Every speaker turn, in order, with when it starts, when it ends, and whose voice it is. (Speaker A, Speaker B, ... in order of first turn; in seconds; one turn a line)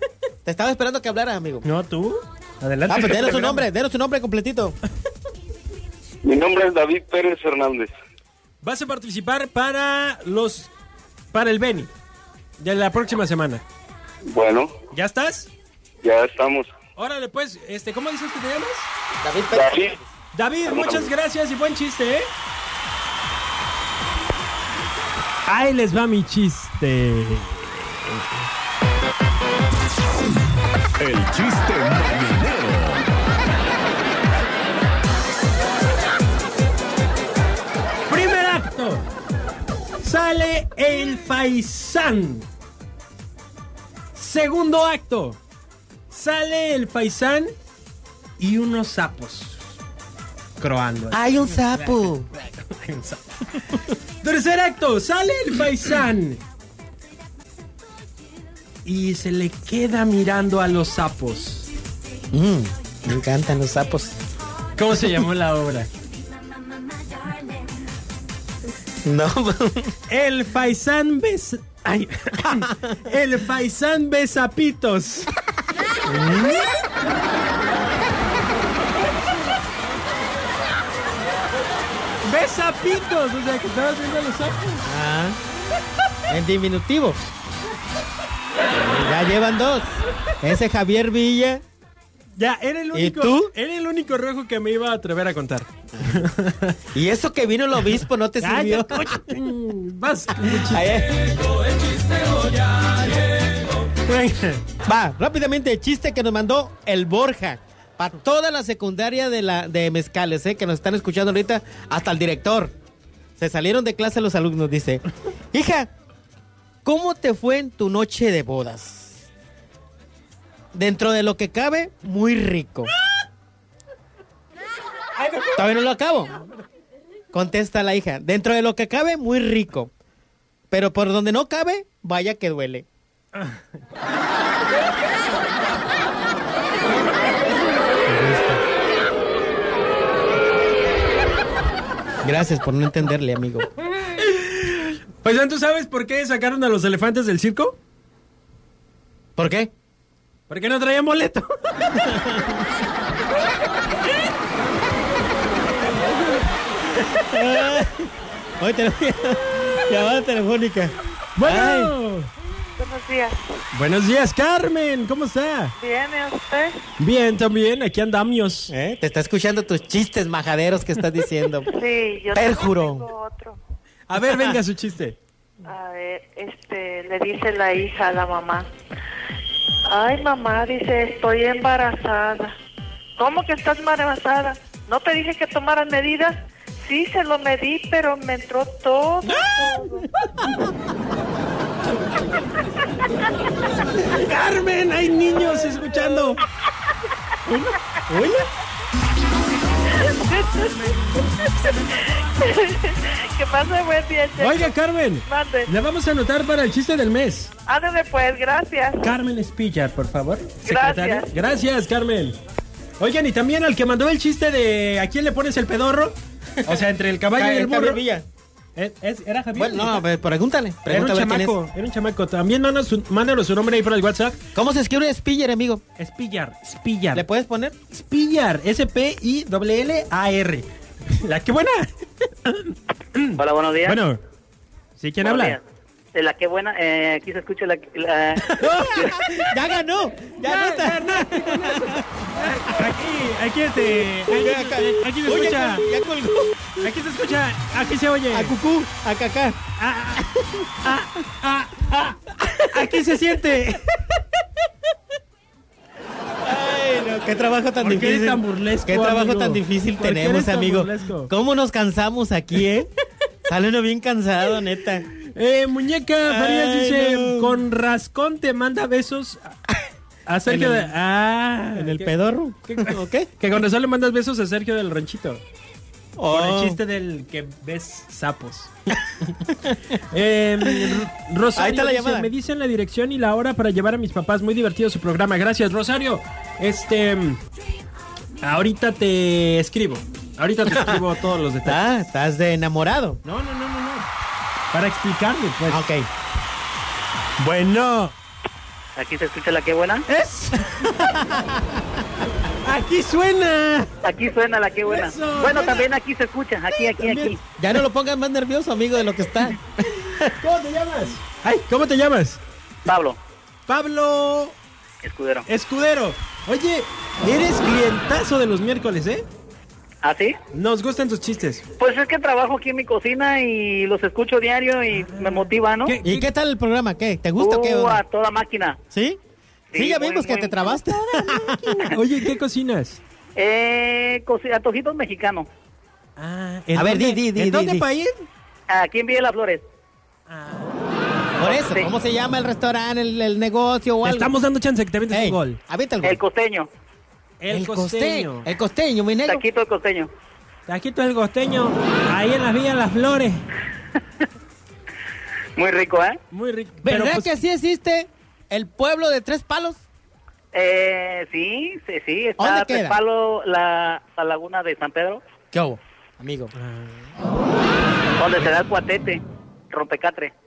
Speaker A: 0.5-1.7
Speaker B: 1.6-3.6
Speaker A: 2.9-4.8
Speaker C: 6.2-7.9
Speaker B: 8.6-10.7
Speaker B: 11.3-11.9
Speaker B: 12.6-13.6
Speaker C: 14.2-14.7
Speaker B: 14.9-15.5
Speaker C: 16.0-16.7
Speaker B: 17.0-18.9
Speaker A: 19.2-19.7
Speaker C: 19.6-19.9
Speaker B: 20.3-22.3
Speaker C: 20.7-21.1
Speaker B: 25.4-28.5
Speaker D: 31.0-33.0
Speaker B: 38.1-39.1
Speaker B: 40.0-42.5
Speaker B: 44.1-45.4
Speaker B: 46.1-47.5
Speaker B: 48.4-49.8
Speaker B: 50.6-56.4
Speaker A: 51.1-52.3
Speaker B: 58.8-61.7
Speaker A: 62.3-64.2
Speaker B: 64.8-65.9
Speaker A: 69.0-69.9
Speaker B: 70.1-75.3
Speaker A: 76.1-76.7
Speaker B: 82.2-84.8
Speaker A: 84.8-85.4
Speaker A: 86.3-87.2
Speaker A: 88.8-91.6
Speaker B: 92.3-96.9
Speaker A: 92.9-93.5
Speaker A: 96.9-99.2
Speaker B: 97.8-101.0
Speaker A: 100.6-101.1
Speaker B: 102.0-104.6
Speaker A: 104.8-112.7
Speaker A: 113.4-115.9
Speaker A: 116.8-119.2
Speaker A: 120.7-122.9
Speaker B: 125.2-125.7
Speaker A: 125.6-126.3
Speaker A: 127.3-129.9
Speaker A: 130.7-132.9
Speaker B: 133.3-133.7
Speaker A: 138.1-138.6
Speaker A: 142.2-143.7
Speaker B: 144.1-147.8
Speaker A: 149.4-149.7
Speaker B: 150.5-151.5
Speaker A: 151.9-152.6
Speaker A: 157.0-158.1
Speaker A: 158.6-161.9
Speaker B: 161.4-162.3
Speaker E: 162.8-163.4
Speaker B: 163.7-165.8
Speaker E: 165.8-166.8
Speaker B: 167.0-168.7
Speaker A: 168.7-171.7
Speaker E: 171.7-173.6
Speaker A: 172.3-173.1
Speaker B: 174.1-175.2
Speaker E: 175.7-178.7
Speaker E: 179.9-182.5
Speaker E: 183.2-190.0
Speaker B: 189.3-190.5
Speaker B: 194.0-196.4
Speaker B: 197.5-198.5
Speaker E: 200.0-200.7
Speaker E: 202.4-204.7
Speaker B: 204.4-207.5
Speaker E: 205.3-205.7
Speaker E: 207.7-209.0
Speaker B: 209.0-212.4
Speaker E: 210.7-211.3
Speaker B: 213.0-218.0
Speaker A: 216.6-218.3
Speaker B: 218.8-220.1
Speaker A: 219.6-221.6
Speaker B: 220.9-224.4
Speaker A: 224.6-225.8
Speaker B: 226.0-227.3
Speaker A: 227.1-227.8
Speaker B: 227.9-234.2
Speaker F: 233.4-234.0
Speaker B: 235.0-235.6
Speaker F: 235.2-235.6
Speaker F: 236.1-239.1
Speaker A: 238.5-242.0
Speaker B: 238.6-239.2
Speaker B: 240.3-245.9
Speaker A: 244.3-246.9
Speaker B: 246.8-248.6
Speaker A: 248.3-249.6
Speaker B: 249.8-254.2
Speaker A: 252.4-252.8
Speaker A: 256.4-262.9
Speaker B: 257.8-261.3
Speaker A: 263.5-265.1
Speaker B: 265.1-272.1
Speaker A: 266.3-267.6
Speaker A: 270.5-270.9
Speaker A: 271.8-273.3
Speaker B: 272.6-275.4
Speaker A: 276.2-276.8
Speaker B: 276.3-287.4
Speaker A: 281.6-282.3
Speaker B: 288.4-291.9
Speaker A: 290.7-291.0
Speaker A: 291.6-293.2
Speaker B: 293.2-294.1
Speaker B: 294.7-295.9
Speaker A: 295.7-296.1
Speaker B: 297.4-298.1
Speaker F: 299.0-300.1
Speaker B: 300.1-301.0
Speaker A: 300.8-302.0
Speaker B: 302.5-303.9
Speaker F: 304.0-307.4
Speaker B: 304.8-305.9
Speaker B: 306.7-307.4
Speaker A: 307.6-310.3
Speaker B: 310.1-312.4
Speaker F: 312.9-313.2
Speaker B: 313.7-314.6
Speaker F: 315.0-315.4
Speaker B: 315.5-319.3
Speaker F: 320.0-320.4
Speaker B: 320.5-321.6
Speaker F: 321.8-325.9
Speaker B: 324.9-326.3
Speaker A: 326.0-328.0
Speaker F: 327.4-328.8
Speaker A: 328.9-329.2
Speaker F: 329.7-330.8
Speaker A: 329.8-331.9
Speaker B: 331.1-333.0
Speaker F: 333.4-335.5
Speaker B: 336.2-338.2
Speaker A: 336.7-337.9
Speaker F: 338.7-339.6
Speaker B: 340.3-340.9
Speaker A: 341.4-344.3
Speaker F: 341.4-341.9
Speaker B: 344.0-345.6
Speaker A: 345.1-346.2
Speaker F: 346.0-346.7
Speaker B: 347.4-348.5
Speaker A: 347.5-349.4
Speaker F: 349.3-350.1
Speaker B: 350.7-353.5
Speaker F: 355.6-356.2
Speaker B: 356.3-357.4
Speaker A: 356.8-359.8
Speaker F: 360.5-365.2
Speaker A: 362.4-363.0
Speaker A: 365.5-366.5
Speaker B: 366.6-367.1
Speaker F: 368.2-370.3